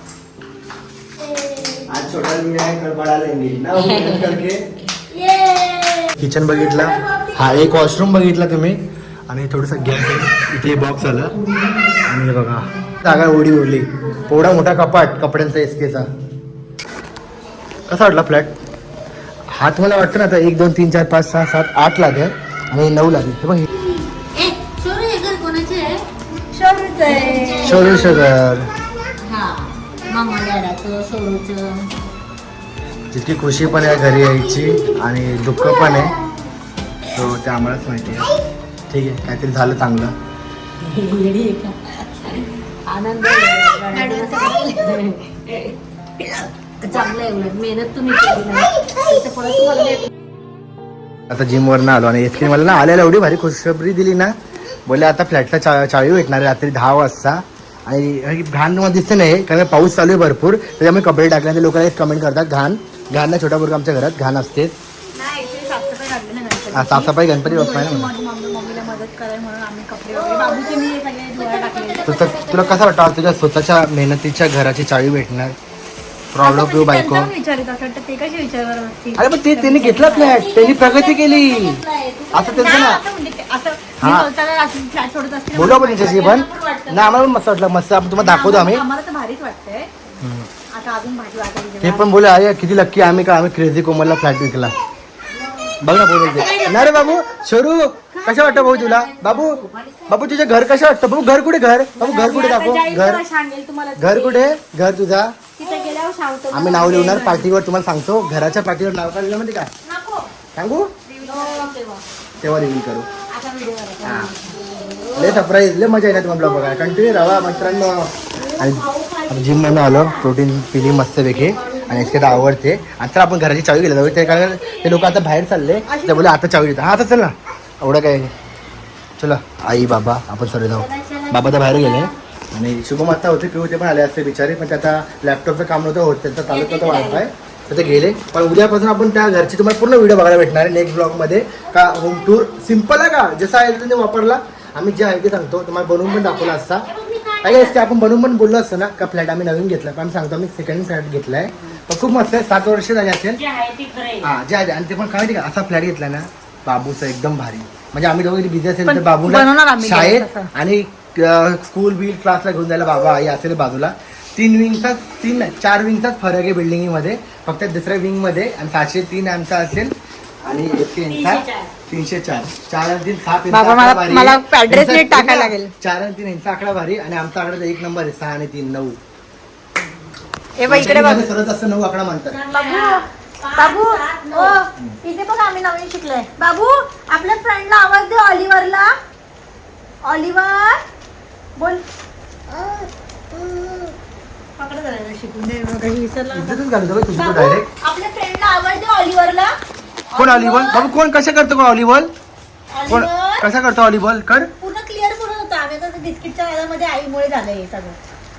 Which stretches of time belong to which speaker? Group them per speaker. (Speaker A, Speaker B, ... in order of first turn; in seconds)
Speaker A: 1.2-1.8, 5.1-5.8, 7.0-7.4, 11.4-12.1, 26.5-27.8, 43.9-44.8, 65.1-72.1, 76.4-80.4, 82.3-87.3, 88.2-89.9, 90.7-92.1, 102.0-104.5, 105.6-107.5, 109.9-110.2, 111.1-112.0, 113.3-115.0, 117.0-117.6, 118.4-120.2, 121.5-122.2, 125.9-126.3, 158.8-160.5, 173.5-175.7, 180.6-181.2, 182.5-188.9, 190.0-190.8, 191.6-191.8, 192.5-193.9, 194.6-196.6, 197.1-199.5, 200.1-200.9, 202.7-203.5, 204.6-208.0
Speaker B: 1.9-4.6, 6.2-11.4, 12.0-16.1, 17.9-18.5, 19.5-23.7, 27.6-28.7, 33.1-36.2, 37.1-38.3, 38.9-40.1, 51.3-54.3, 54.9-64.7, 66.7-68.1, 72.0-75.5, 76.3-77.3, 79.2-81.8, 82.3-83.0, 84.0-84.3, 85.5-88.8, 90.2-90.5, 91.8-94.7, 95.8-103.2, 104.0-105.3, 106.5-109.7, 110.5-110.9, 112.4-113.1, 114.0-114.3, 115.1-128.3, 129.2-146.8, 147.4-153.4, 154.2-169.9, 170.4-179.0, 180.7-182.4, 196.3-197.7, 200.2-202.1, 202.9-204.5
Speaker C: 3.7-4.4, 5.4-6.1, 23.7-26.0, 27.0-28.3, 29.2-31.9, 33.7-35.0, 35.6-36.3, 40.8-50.1, 52.3-53.0, 70.1-72.9, 80.0-82.5, 96.2-97.2, 98.2-100.5, 111.2-111.7, 114.5-115.4, 118.6-119.8, 121.1-122.4, 130.7-132.1, 136.5-137.2, 146.0-147.8, 153.3-154.3, 170.5-171.7, 182.3-184.6